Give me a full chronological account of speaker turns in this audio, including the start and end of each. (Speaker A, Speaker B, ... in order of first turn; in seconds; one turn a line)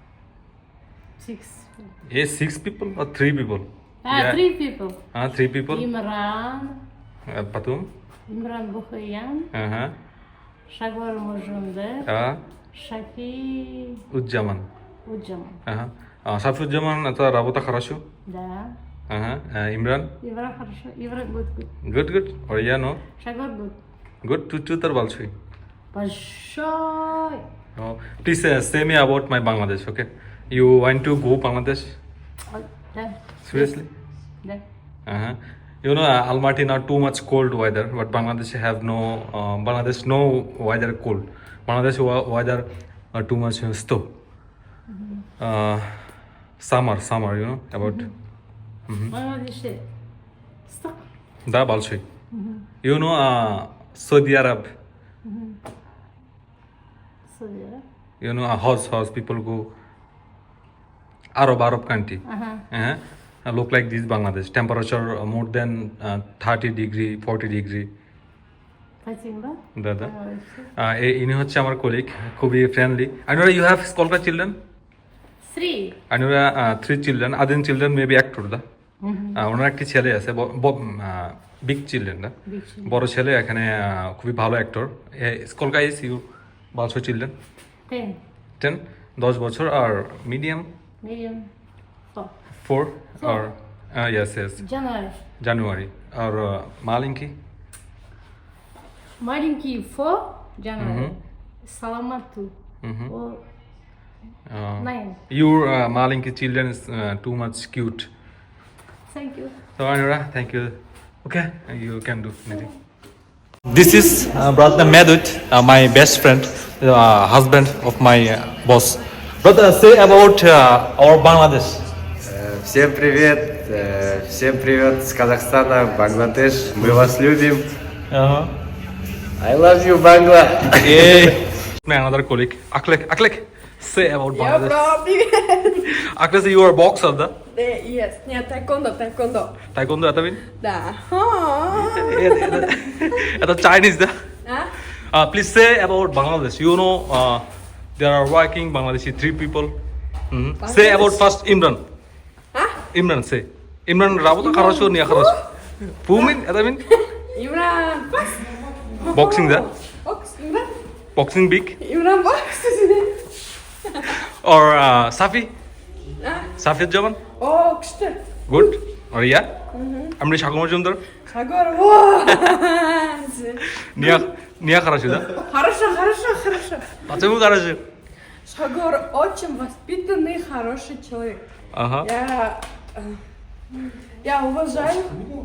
Speaker A: 1.2-1.9
Speaker B: 2.1-4.4
Speaker A: 4.0-5.0
Speaker B: 5.1-5.9
Speaker A: 5.7-6.8
Speaker B: 7.3-7.9
Speaker A: 8.3-9.5
Speaker B: 9.5-9.9
Speaker A: 10.7-12.1
Speaker B: 12.1-12.4
Speaker A: 12.7-14.0
Speaker B: 14.1-14.7
Speaker A: 15.1-15.6
Speaker B: 15.7-18.0
Speaker A: 18.3-18.7
Speaker B: 19.1-20.1
Speaker A: 20.2-21.7
Speaker B: 21.8-23.0
Speaker A: 23.2-23.8
Speaker B: 24.2-25.3
Speaker A: 25.9-27.4
Speaker B: 27.8-31.9
Speaker A: 32.5-33.8
Speaker B: 33.4-33.9
Speaker B: 35.1-44.0
Speaker A: 44.9-45.3
Speaker B: 45.4-46.0
Speaker B: 46.6-48.1
Speaker A: 47.8-48.1
Speaker B: 48.9-49.1
Speaker A: 49.1-49.8
Speaker A: 50.7-51.0
Speaker B: 51.5-52.0
Speaker A: 52.3-52.7
Speaker B: 52.8-54.7
Speaker A: 55.2-55.6
Speaker A: 57.3-57.8
Speaker B: 58.2-59.7
Speaker B: 61.4-67.9
Speaker A: 62.3-62.6
Speaker A: 69.0-70.7
Speaker B: 69.8-70.1
Speaker B: 70.8-74.5
Speaker A: 75.5-76.0
Speaker B: 76.1-78.6
Speaker A: 79.0-79.4
Speaker B: 79.3-87.3
Speaker A: 82.5-83.0
Speaker A: 87.9-88.2
Speaker B: 88.6-90.7
Speaker A: 91.0-91.5
Speaker B: 92.5-94.7
Speaker A: 93.2-93.5
Speaker A: 94.6-95.2
Speaker B: 95.4-97.3
Speaker A: 99.2-102.5
Speaker B: 100.8-101.1
Speaker B: 102.8-103.1
Speaker A: 103.1-103.5
Speaker B: 104.5-108.1
Speaker A: 104.8-105.2
Speaker A: 109.1-109.5
Speaker B: 109.8-112.7
Speaker B: 113.7-121.8
Speaker C: 122.3-127.7
Speaker B: 126.8-127.1
Speaker B: 128.1-128.5
Speaker C: 129.4-131.3
Speaker B: 130.8-134.9
Speaker D: 134.3-135.8
Speaker B: 135.7-137.3
Speaker D: 137.5-139.5
Speaker B: 139.7-140.4
Speaker D: 140.6-142.7
Speaker B: 141.7-144.2
Speaker D: 144.4-144.7
Speaker B: 144.9-147.4
Speaker B: 148.0-149.7
Speaker B: 150.3-151.8
Speaker D: 150.6-151.2
Speaker B: 152.8-156.9
Speaker D: 154.4-155.3
Speaker D: 157.1-160.8
Speaker B: 159.1-159.7
Speaker B: 161.2-161.8
Speaker D: 161.8-163.2
Speaker B: 164.0-165.5
Speaker D: 166.2-166.5
Speaker B: 166.5-167.2
Speaker D: 167.4-168.6
Speaker B: 168.5-169.5
Speaker D: 169.7-170.1
Speaker B: 170.1-171.0
Speaker D: 171.2-174.3
Speaker B: 173.7-175.4
Speaker D: 175.4-177.0
Speaker B: 177.0-177.8
Speaker D: 178.5-181.4
Speaker B: 181.7-182.1
Speaker D: 182.0-183.2
Speaker D: 184.2-185.2